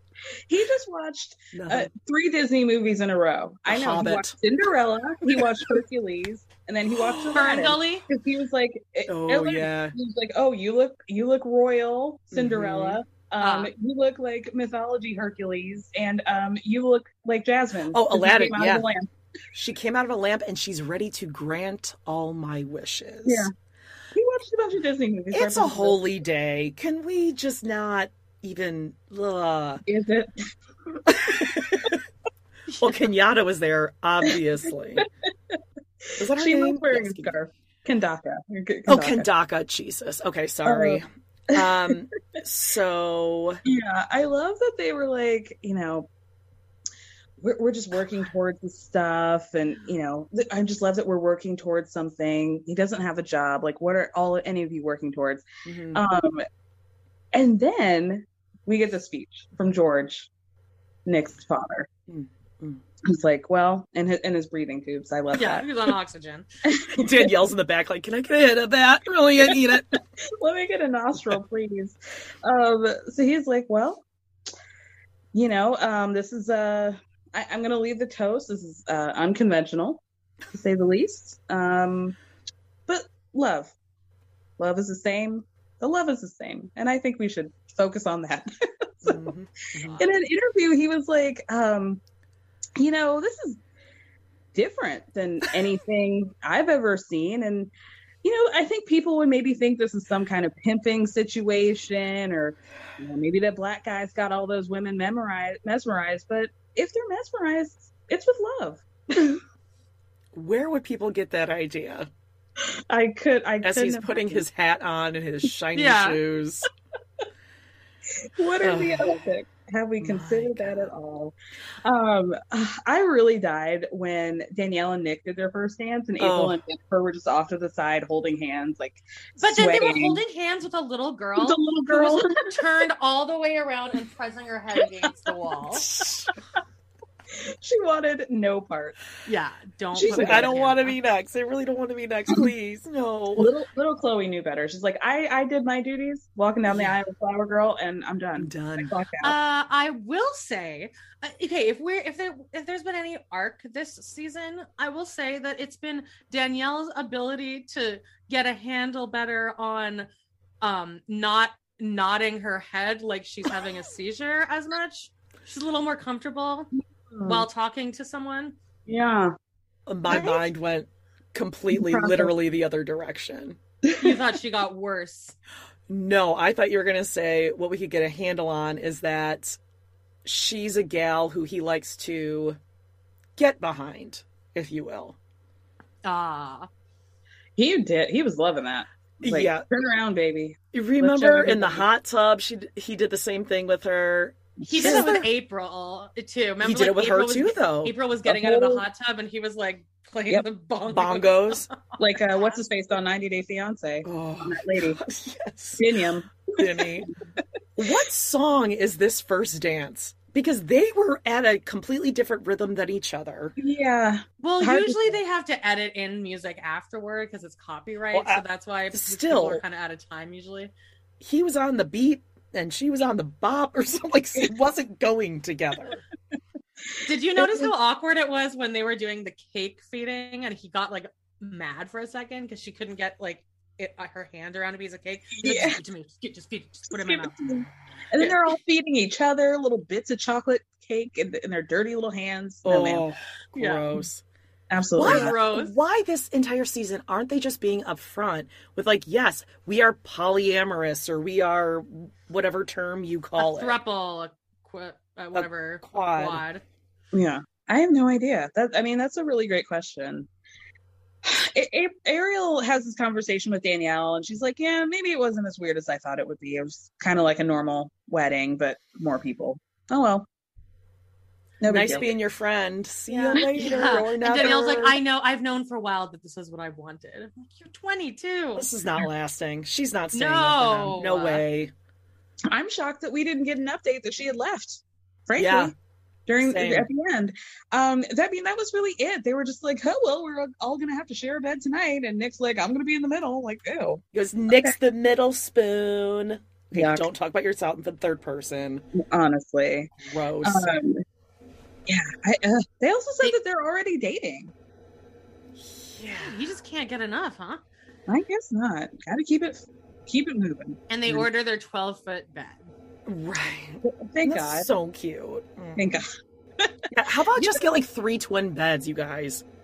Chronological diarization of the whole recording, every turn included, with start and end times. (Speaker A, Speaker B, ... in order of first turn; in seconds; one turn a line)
Speaker A: 0.5-19.1
Speaker B: 1.5-1.9
Speaker B: 3.7-4.3
Speaker B: 7.0-7.5
Speaker C: 7.3-8.1
Speaker B: 9.1-9.9
Speaker B: 12.3-13.0
Speaker C: 13.4-13.7
Speaker B: 17.9-18.9
Speaker B: 19.5-23.5
Speaker A: 23.3-23.5
Speaker A: 24.1-26.0
Speaker B: 25.3-29.8
Speaker A: 29.9-31.3
Speaker B: 31.1-32.0
Speaker B: 32.8-35.1
Speaker A: 36.1-39.3
Speaker B: 36.2-37.3
Speaker B: 38.9-43.6
Speaker A: 40.7-41.0
Speaker A: 41.5-41.9
Speaker A: 43.7-46.1
Speaker A: 47.4-56.4
Speaker B: 55.6-56.0
Speaker A: 57.3-60.3
Speaker A: 61.1-61.9
Speaker B: 62.1-62.8
Speaker A: 63.0-65.7
Speaker C: 65.3-66.5
Speaker A: 66.7-67.3
Speaker B: 67.0-70.0
Speaker A: 70.4-74.0
Speaker A: 75.3-80.0
Speaker A: 80.5-82.2
Speaker A: 82.9-83.7
Speaker A: 84.6-88.5
Speaker A: 89.0-89.3
Speaker B: 89.0-90.1
Speaker A: 89.9-92.0
Speaker A: 92.8-93.6
Speaker A: 94.5-97.7
Speaker A: 98.2-109.4
Speaker B: 110.3-112.1
Speaker A: 112.9-114.5
Speaker B: 113.6-116.7
Speaker C: 115.7-116.2
Speaker A: 118.4-130.2
Speaker B: 118.6-119.2
Speaker B: 120.0-120.9
Speaker B: 126.2-126.6
Speaker C: 129.4-135.8
Speaker A: 131.4-132.6
Speaker B: 135.8-136.3
Speaker A: 137.4-139.0
Speaker C: 139.3-141.0
Speaker B: 139.9-143.5
Speaker A: 140.0-140.5
Speaker A: 143.4-149.3
Speaker B: 146.7-147.0
Speaker B: 148.4-148.9
Speaker C: 149.2-160.1
Speaker C: 160.6-166.7
Speaker A: 167.1-167.4
Speaker C: 167.2-168.6
Speaker A: 168.9-169.3
Speaker B: 169.9-173.6
Speaker A: 170.1-170.4
Speaker A: 171.7-172.3
Speaker A: 173.9-174.2
Speaker C: 174.0-175.4
Speaker B: 175.9-179.6
Speaker B: 180.2-182.6
Speaker B: 183.4-185.2
Speaker C: 186.0-186.7
Speaker A: 187.6-191.9
Speaker B: 189.2-189.7
Speaker B: 190.7-195.3
Speaker A: 194.6-195.2
Speaker C: 194.7-202.6
Speaker B: 196.6-197.9
Speaker A: 198.3-198.8
Speaker B: 200.9-201.7
Speaker A: 202.0-205.0
Speaker B: 204.0-206.0
Speaker A: 205.8-207.1
Speaker B: 206.6-207.1
Speaker B: 207.8-213.6
Speaker A: 213.6-215.1
Speaker C: 214.4-220.7
Speaker B: 218.1-219.6
Speaker B: 221.2-226.0
Speaker C: 227.1-237.6
Speaker A: 227.4-227.7
Speaker A: 235.4-235.8
Speaker A: 236.9-243.1
Speaker B: 242.6-244.2
Speaker C: 243.6-243.9
Speaker A: 244.7-245.4
Speaker B: 245.0-253.8
Speaker C: 245.0-245.7
Speaker C: 253.4-256.6
Speaker B: 255.3-256.4
Speaker A: 257.1-260.3
Speaker A: 261.2-270.3
Speaker A: 271.6-272.2
Speaker B: 271.7-275.0
Speaker C: 273.1-278.7
Speaker A: 273.3-273.7
Speaker B: 278.6-281.7
Speaker C: 280.1-281.4
Speaker A: 282.5-285.7
Speaker B: 285.4-285.7
Speaker A: 286.3-294.0
Speaker B: 286.4-286.9
Speaker B: 294.1-298.8
Speaker A: 296.7-297.1
Speaker A: 298.9-299.9
Speaker B: 300.0-300.8
Speaker A: 300.4-301.0
Speaker A: 301.9-304.5
Speaker B: 305.6-306.4
Speaker C: 306.1-307.6
Speaker A: 308.1-310.8
Speaker C: 310.9-312.7
Speaker B: 313.1-315.9
Speaker A: 313.8-314.7
Speaker A: 315.8-316.1
Speaker B: 316.9-319.4